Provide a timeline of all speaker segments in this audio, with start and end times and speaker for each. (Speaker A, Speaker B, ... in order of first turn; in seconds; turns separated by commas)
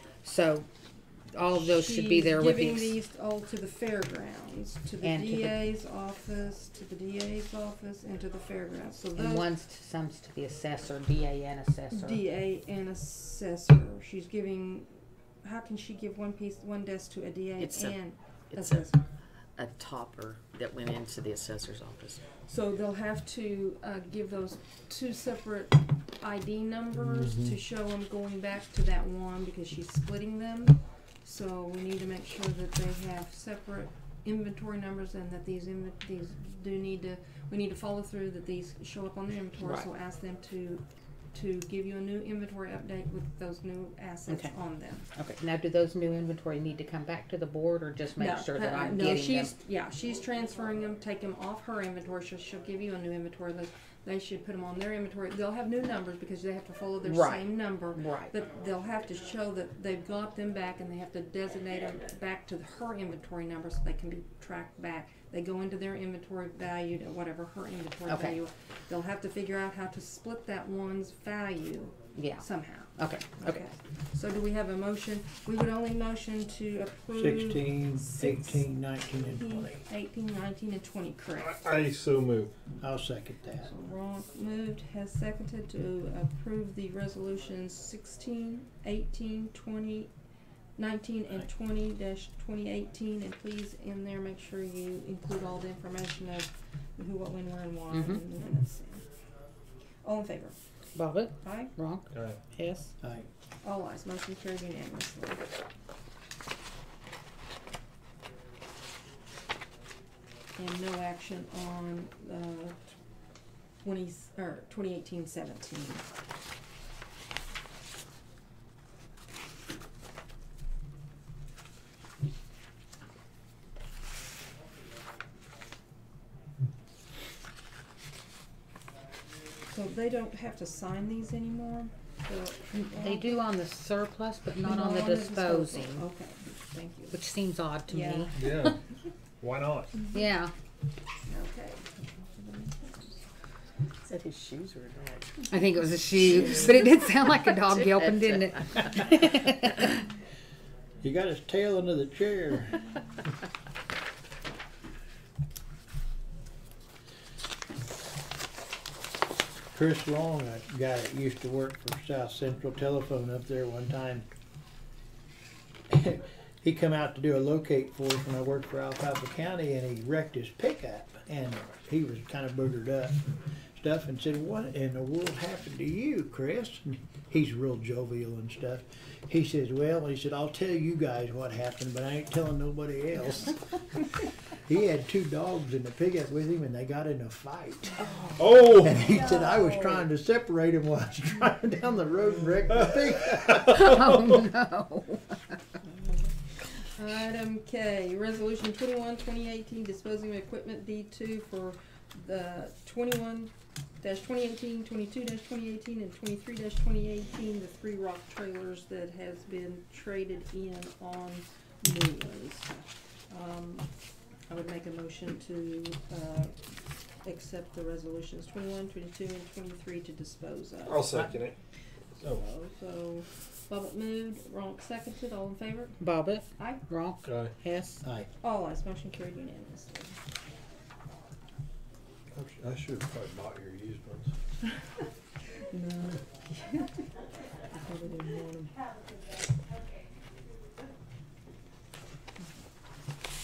Speaker A: 0.2-0.7, Speaker A: 1.3-3.0, Speaker B: 1.6-9.5, Speaker A: 5.0-5.6, Speaker A: 9.1-12.2, Speaker B: 11.9-19.0, Speaker C: 17.6-17.9, Speaker C: 18.5-18.8, Speaker C: 19.6-22.2, Speaker B: 22.4-45.1, Speaker D: 27.2-27.5, Speaker A: 39.6-39.9, Speaker A: 44.3-44.5, Speaker A: 45.1-49.5, Speaker B: 48.1-78.6, Speaker A: 57.0-58.3, Speaker A: 68.1-68.4, Speaker A: 72.2-73.6, Speaker D: 77.1-79.8, Speaker B: 79.3-81.5, Speaker E: 81.4-82.5, Speaker D: 82.8-83.7, Speaker B: 83.6-90.1, Speaker B: 90.8-99.0, Speaker A: 97.9-98.2, Speaker B: 100.0-100.5, Speaker A: 100.9-102.9, Speaker B: 101.4-101.7, Speaker D: 103.0-103.3, Speaker B: 103.6-105.5, Speaker B: 110.6-112.9, Speaker B: 113.8-116.1, Speaker B: 129.7-133.5, Speaker A: 132.7-136.1, Speaker B: 134.6-137.2, Speaker A: 137.1-138.7, Speaker B: 137.9-138.7, Speaker E: 139.4-139.8, Speaker A: 140.1-140.5, Speaker B: 141.3-143.2, Speaker C: 144.1-145.4, Speaker A: 145.5-150.0, Speaker C: 147.8-148.2, Speaker D: 151.0-152.8, Speaker D: 159.7-164.3, Speaker D: 165.9-183.8, Speaker D: 184.5-193.9, Speaker B: 189.1-190.1, Speaker A: 193.6-195.6, Speaker B: 195.8-196.3, Speaker B: 196.9-213.9, Speaker B: 214.5-216.6, Speaker B: 217.2-221.2, Speaker E: 220.9-221.5, Speaker B: 222.2-226.0, Speaker A: 226.0-228.0, Speaker E: 227.3-227.5, Speaker D: 228.0-228.3, Speaker B: 228.4-230.2, Speaker E: 232.3-234.3, Speaker B: 235.7-237.0, Speaker B: 237.7-238.8